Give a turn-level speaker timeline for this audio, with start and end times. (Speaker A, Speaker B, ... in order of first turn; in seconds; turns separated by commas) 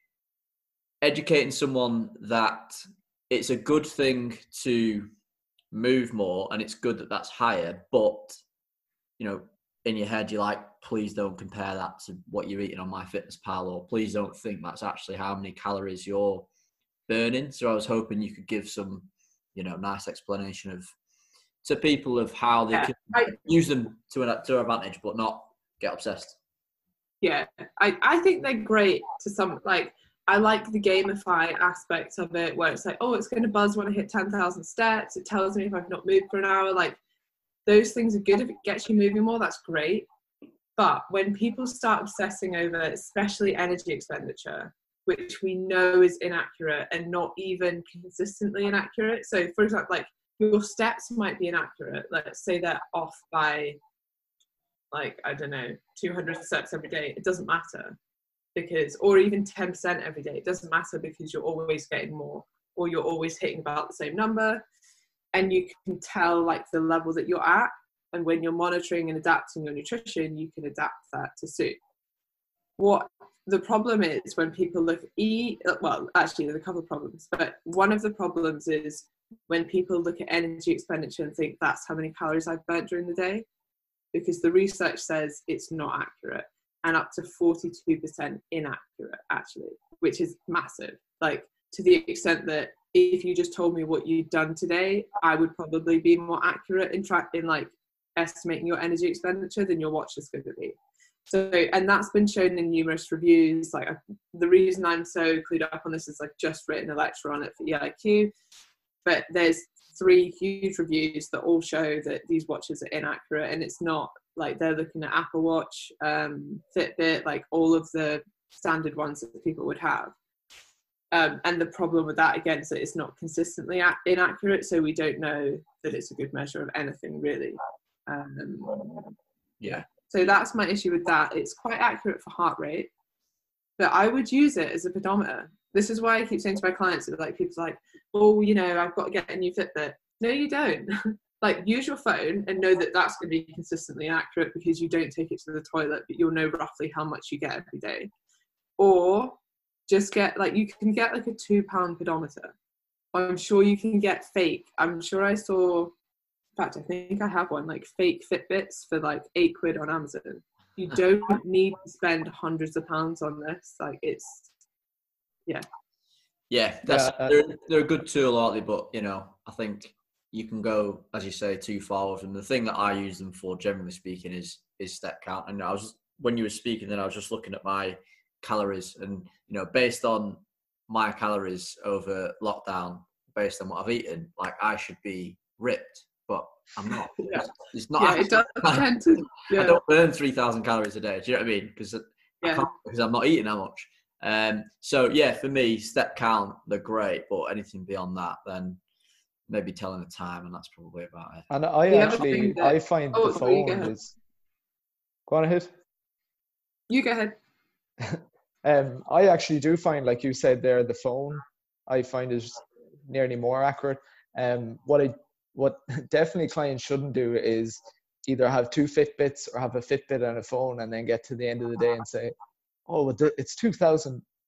Speaker A: 1.0-5.1, Speaker A: 5.7-8.4, Speaker A: 9.2-16.5, Speaker A: 17.1-20.9, Speaker A: 21.6-26.4, Speaker B: 22.7-23.4, Speaker B: 27.2-37.0, Speaker B: 37.6-40.1, Speaker B: 40.8-53.8, Speaker B: 54.9-58.0, Speaker B: 58.5-64.6, Speaker B: 65.3-71.8, Speaker B: 72.8-83.5, Speaker B: 84.1-100.8, Speaker B: 101.3-108.3, Speaker B: 109.0-120.1, Speaker B: 121.1-129.1, Speaker B: 129.7-132.9, Speaker B: 133.8-148.1, Speaker B: 148.8-149.4, Speaker B: 149.9-152.5, Speaker B: 153.1-155.9, Speaker B: 156.6-164.5, Speaker A: 166.5-198.8, Speaker C: 166.8-167.4, Speaker B: 187.2-187.4, Speaker B: 188.0-189.8, Speaker B: 192.4-192.7, Speaker A: 199.5-201.5, Speaker C: 201.5-204.1, Speaker B: 201.9-203.9, Speaker C: 205.3-205.7, Speaker B: 206.9-207.3, Speaker C: 208.0-222.3, Speaker C: 222.9-224.2